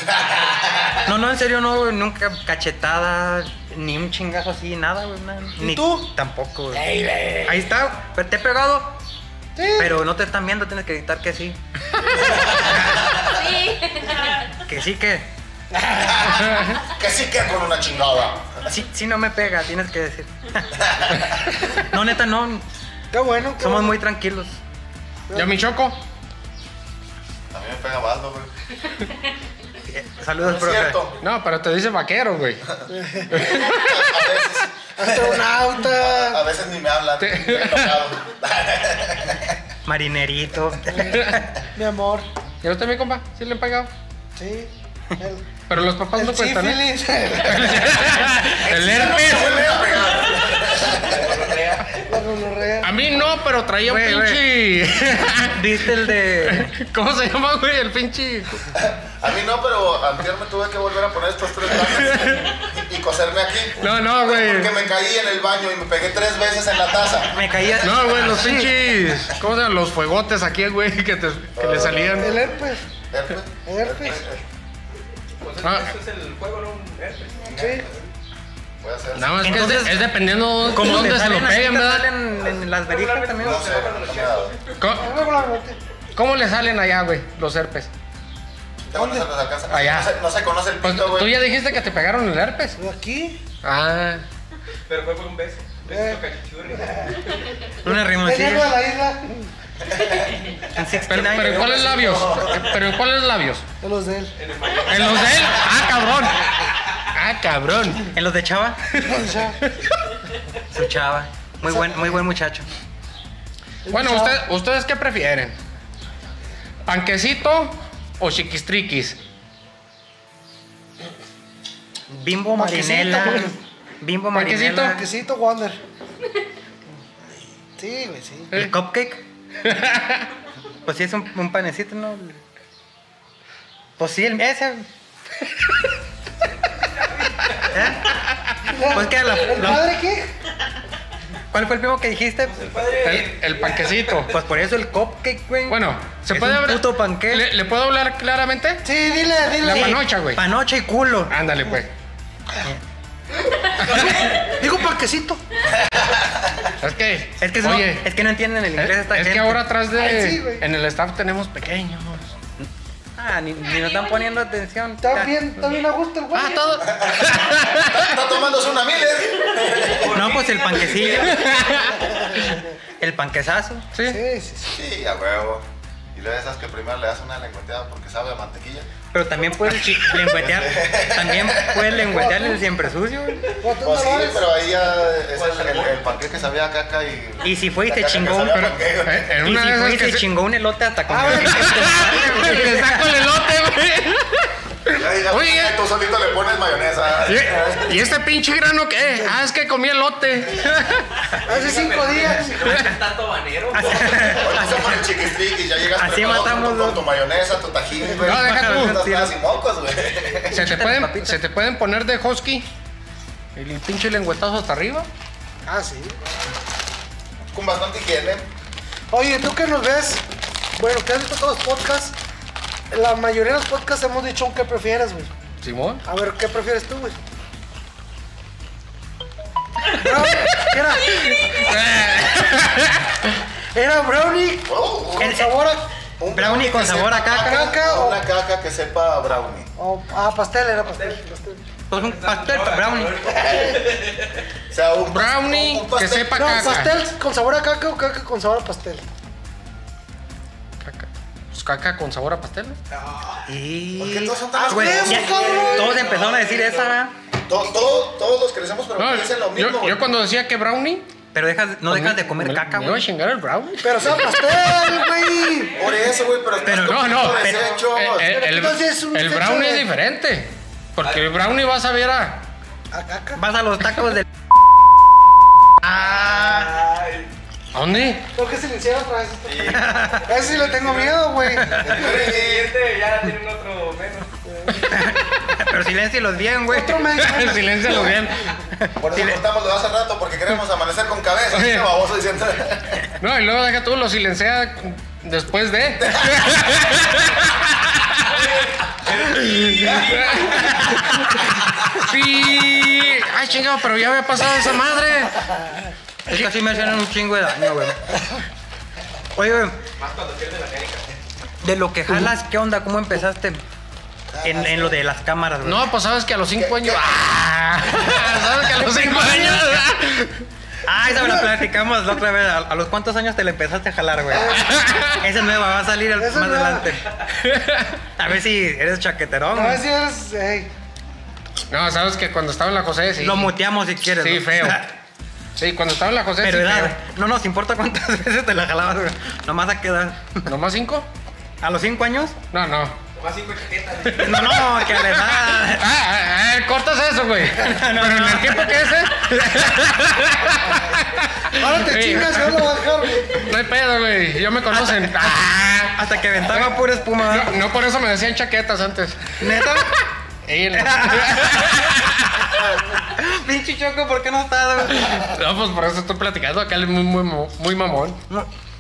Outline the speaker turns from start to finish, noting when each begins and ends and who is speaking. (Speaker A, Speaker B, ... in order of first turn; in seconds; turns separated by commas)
Speaker A: 0.3-1.0, Speaker B: 1.0-6.9, Speaker C: 5.6-6.1, Speaker C: 7.1-7.4, Speaker B: 7.4-9.0, Speaker C: 9.6-10.0, Speaker B: 9.8-11.6, Speaker A: 12.1-13.6, Speaker B: 12.3-13.2, Speaker B: 14.5-15.3, Speaker A: 15.9-18.7, Speaker D: 16.2-16.8, Speaker B: 18.7-22.6, Speaker A: 20.8-21.3, Speaker C: 23.1-24.0, Speaker B: 23.6-24.6, Speaker D: 25.3-26.0, Speaker A: 27.5-28.5, Speaker B: 29.9-31.0, Speaker A: 30.4-31.2, Speaker D: 31.2-32.6, Speaker C: 32.9-33.5, Speaker A: 33.3-39.6, Speaker D: 33.3-34.1, Speaker C: 35.0-36.4, Speaker D: 37.2-38.0, Speaker B: 39.9-41.6, Speaker C: 40.9-41.2, Speaker D: 41.1-41.4, Speaker C: 41.7-42.3, Speaker D: 42.6-43.9, Speaker C: 44.4-45.5, Speaker D: 45.7-50.0, Speaker C: 46.1-47.9, Speaker A: 48.5-51.5, Speaker E: 51.0-52.0, Speaker C: 52.0-53.0, Speaker D: 52.8-58.7, Speaker B: 53.8-54.5, Speaker B: 55.4-56.7, Speaker A: 58.7-67.7, Speaker D: 62.0-62.5, Speaker D: 63.8-64.7, Speaker B: 67.3-68.7, Speaker D: 67.8-72.4, Speaker A: 71.6-74.4, Speaker C: 72.2-72.8, Speaker C: 73.7-74.2, Speaker E: 75.4-77.6, Speaker D: 75.6-75.9, Speaker C: 77.5-77.9, Speaker A: 77.5-77.8, Speaker A: 78.8-79.8, Speaker D: 79.2-82.2, Speaker B: 79.4-80.1, Speaker B: 80.6-83.7, Speaker E: 82.4-84.8, Speaker A: 83.4-84.6, Speaker D: 84.8-85.1, Speaker C: 84.9-85.8, Speaker D: 86.2-87.9, Speaker A: 88.8-91.4, Speaker C: 88.9-89.3, Speaker D: 89.7-90.1, Speaker D: 90.8-92.8, Speaker C: 92.8-93.4, Speaker D: 93.6-94.2, Speaker E: 94.9-97.4, Speaker C: 95.9-96.2, Speaker C: 96.7-97.3, Speaker B: 97.8-98.8, Speaker C: 97.8-99.5, Speaker A: 99.9-100.6, Speaker B: 100.7-102.2, Speaker D: 101.1-103.7, Speaker A: 101.4-102.7, Speaker C: 103.8-104.3, Speaker E: 104.4-105.9, Speaker D: 104.9-108.1, Speaker B: 108.1-108.8, Speaker D: 108.9-109.8, Speaker C: 109.0-109.6, Speaker B: 110.7-112.7, Speaker C: 113.8-114.4, Speaker D: 113.9-115.6, Speaker D: 116.9-119.2, Speaker B: 122.1-125.0, Speaker C: 122.6-123.6, Speaker D: 124.3-125.0, Speaker C: 124.8-125.8, Speaker C: 127.8-128.5, Speaker B: 128.5-129.2, Speaker D: 129.6-130.3, Speaker B: 130.8-132.4, Speaker B: 134.0-134.9, Speaker E: 136.8-137.8, Speaker B: 137.7-138.1, Speaker D: 138.3-138.6, Speaker C: 138.6-140.3, Speaker B: 138.8-139.9, Speaker B: 141.5-142.9, Speaker E: 142.5-144.3, Speaker D: 143.0-144.4, Speaker B: 144.3-147.5, Speaker D: 145.7-148.8, Speaker C: 148.8-150.0, Speaker D: 149.6-150.4, Speaker B: 149.6-151.3, Speaker D: 151.3-151.9, Speaker D: 153.8-154.1, Speaker C: 153.9-155.4, Speaker E: 153.9-154.4, Speaker A: 155.8-156.7, Speaker D: 156.8-158.1, Speaker B: 157.4-159.6, Speaker D: 158.8-162.3, Speaker C: 160.0-160.7, Speaker B: 162.6-165.4, Speaker C: 165.0-166.8, Speaker D: 166.3-168.1, Speaker A: 166.9-170.1, Speaker E: 169.8-171.9, Speaker B: 170.1-171.5, Speaker D: 171.3-172.6, Speaker C: 172.2-172.7, Speaker B: 173.0-173.9, Speaker D: 173.9-174.2, Speaker C: 174.0-174.8, Speaker A: 174.7-178.9, Speaker B: 179.1-183.4, Speaker A: 180.2-182.0, Speaker C: 182.1-182.6, Speaker C: 183.6-184.5, Speaker A: 183.8-189.3, Speaker E: 185.3-186.1, Speaker B: 187.4-188.7, Speaker D: 188.6-190.3, Speaker B: 189.4-193.1, Speaker C: 191.1-192.7, Speaker D: 191.3-195.8, Speaker A: 194.9-198.1, Speaker D: 197.2-201.2, Speaker E: 201.4-204.6, Speaker C: 201.5-202.9, Speaker B: 203.7-205.2, Speaker A: 204.2-210.7, Speaker B: 205.9-207.0, Speaker B: 208.2-209.3, Speaker D: 208.2-209.0, Speaker B: 210.5-211.4, Speaker D: 210.5-212.7, Speaker D: 213.6-215.1, Speaker C: 215.7-216.2, Speaker A: 217.5-218.5, Speaker C: 219.1-220.2, Speaker C: 220.8-222.2, Speaker C: 222.9-225.3, Speaker D: 225.6-226.0, Speaker C: 226.1-227.2, Speaker C: 229.9-231.3, Speaker D: 230.5-233.3, Speaker C: 233.7-235.9, Speaker A: 234.7-235.3, Speaker B: 235.2-235.6, Speaker A: 236.2-239.7, Speaker B: 236.3-237.7, Speaker C: 237.4-238.2, Speaker C: 239.8-241.6, Speaker B: 241.9-243.3, Speaker E: 241.9-244.5, Speaker C: 243.3-244.0, Speaker A: 244.7-246.9, Speaker D: 245.1-247.0, Speaker C: 246.3-249.1, Speaker D: 250.8-252.8, Speaker E: 252.9-253.5, Speaker B: 253.5-257.1, Speaker A: 254.0-255.4, Speaker C: 254.6-256.0, Speaker E: 255.6-256.9, Speaker A: 257.5-260.1, Speaker D: 259.0-261.1, Speaker B: 261.3-263.1, Speaker D: 261.9-265.1, Speaker C: 263.8-265.8, Speaker A: 265.8-268.3, Speaker E: 265.8-266.8, Speaker B: 266.6-267.6, Speaker D: 266.8-272.5, Speaker C: 268.2-269.9, Speaker E: 271.0-271.3, Speaker C: 272.9-273.4, Speaker B: 273.4-274.2, Speaker B: 275.8-276.7, Speaker E: 275.9-277.3, Speaker D: 277.7-278.3, Speaker C: 278.3-281.8, Speaker E: 279.4-284.4, Speaker B: 279.7-280.3, Speaker B: 281.5-281.9, Speaker A: 281.8-282.8, Speaker C: 284.5-284.9, Speaker B: 284.8-287.2, Speaker C: 286.7-288.2, Speaker D: 287.1-288.6, Speaker B: 288.6-289.4, Speaker A: 289.0-293.1, Speaker D: 291.5-291.9, Speaker D: 293.2-298.4, Speaker A: 296.0-296.5, Speaker E: 298.9-301.1, Speaker D: 299.2-305.6, Speaker B: 306.3-308.1, Speaker D: 306.3-306.7, Speaker B: 309.4-309.8, Speaker E: 310.0-311.1, Speaker B: 311.6-313.6, Speaker A: 314.3-315.0, Speaker B: 314.4-315.9, Speaker D: 315.6-320.5, Speaker A: 316.6-317.2, Speaker C: 318.7-319.8, Speaker B: 320.9-327.1, Speaker C: 320.9-321.5, Speaker C: 324.3-324.9, Speaker D: 324.5-325.2, Speaker C: 326.2-326.9, Speaker D: 327.3-328.0, Speaker B: 328.2-329.8, Speaker C: 329.5-330.7, Speaker D: 331.7-333.6, Speaker B: 333.2-334.9, Speaker D: 334.1-334.9, Speaker D: 335.6-336.9, Speaker B: 336.4-340.5, Speaker D: 340.5-341.1, Speaker B: 341.6-342.4, Speaker D: 342.5-343.0, Speaker E: 343.1-344.7, Speaker D: 344.1-359.9, Speaker B: 344.1-345.9, Speaker B: 347.4-349.1, Speaker C: 351.5-353.5, Speaker B: 354.8-355.3, Speaker B: 356.0-357.6, Speaker B: 359.4-360.0, Speaker D: 360.4-362.6, Speaker B: 360.7-361.8, Speaker B: 362.5-365.3, Speaker D: 364.9-368.2